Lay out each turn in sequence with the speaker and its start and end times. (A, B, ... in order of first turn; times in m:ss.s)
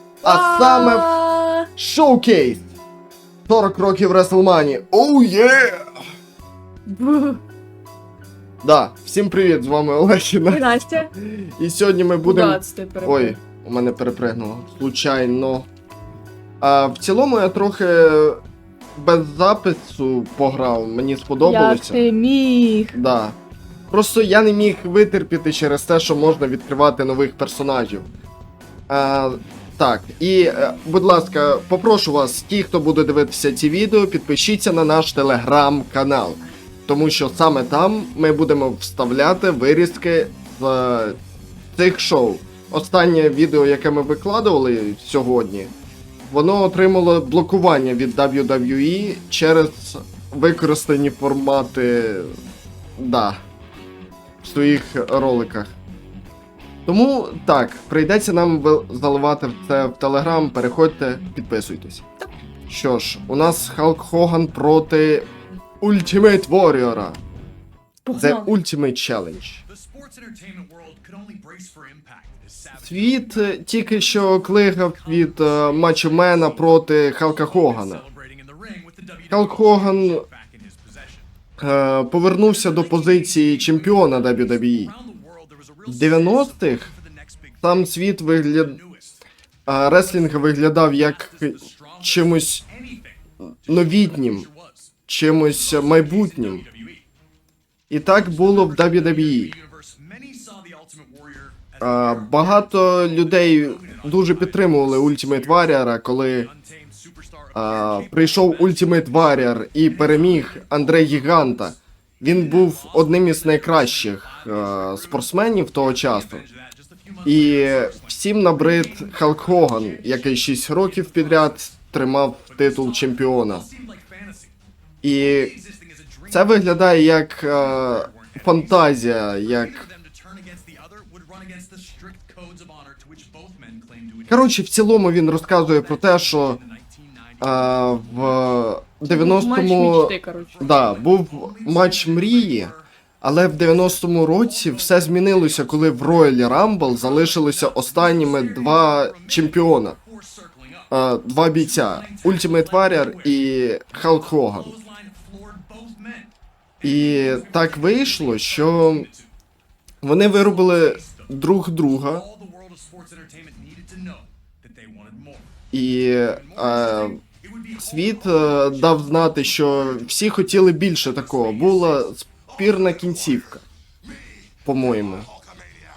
0:00.2-0:01.2 A
0:00.2-0:01.7 B
0:01.8-0:02.7 A
0:03.5-0:06.0 A
0:06.8-0:07.4 B
0:08.6-0:15.7 A
0:10.5-0:11.1 B
0:12.2-0:13.4 B
0:16.6-0:18.4 A
0:18.9-0:22.0 A
0:21.4-0:23.0 B
0:22.9-0:23.4 A
0:23.9-0:28.1 A
0:28.9-0:41.2 A
0:41.7-0:45.7 A
0:46.2-0:52.3 A
0:53.0-0:53.4 A
0:54.4-0:55.7 A
0:56.8-1:02.0 A
1:02.7-1:05.3 A
1:05.8-1:07.2 A
1:08.0-1:08.5 B
1:08.1-1:09.6 A
1:09.6-1:21.3 C
1:12.7-1:18.0 A
1:19.3-1:20.2 A
1:21.6-1:24.9 A
1:22.3-1:29.2 C
1:25.9-1:26.9 A
1:27.6-1:28.8 A
1:29.7-1:32.6 A
1:29.8-1:37.0 C
1:33.6-1:34.5 A
1:35.1-1:36.6 A
1:37.9-1:39.5 A
1:38.1-1:45.8 C
1:41.8-1:46.5 A
1:46.3-1:51.4 C
1:47.5-1:56.4 A
1:52.2-2:04.5 C
1:57.2-2:03.6 A
2:05.0-2:05.5 A
2:05.1-2:18.6 C
2:06.3-2:09.8 A
2:14.3-2:16.6 A
2:17.4-2:30.0 A
2:19.0-2:20.6 B
2:20.5-2:22.8 C
2:23.7-2:30.9 C
2:30.9-2:34.7 A
2:31.5-2:39.3 C
2:36.8-2:39.1 A
2:40.0-2:42.2 A
2:40.3-2:41.3 C
2:42.0-2:45.5 C
2:45.7-2:47.2 A
2:46.2-2:53.6 C
2:47.8-2:53.6 A
2:54.6-2:55.3 A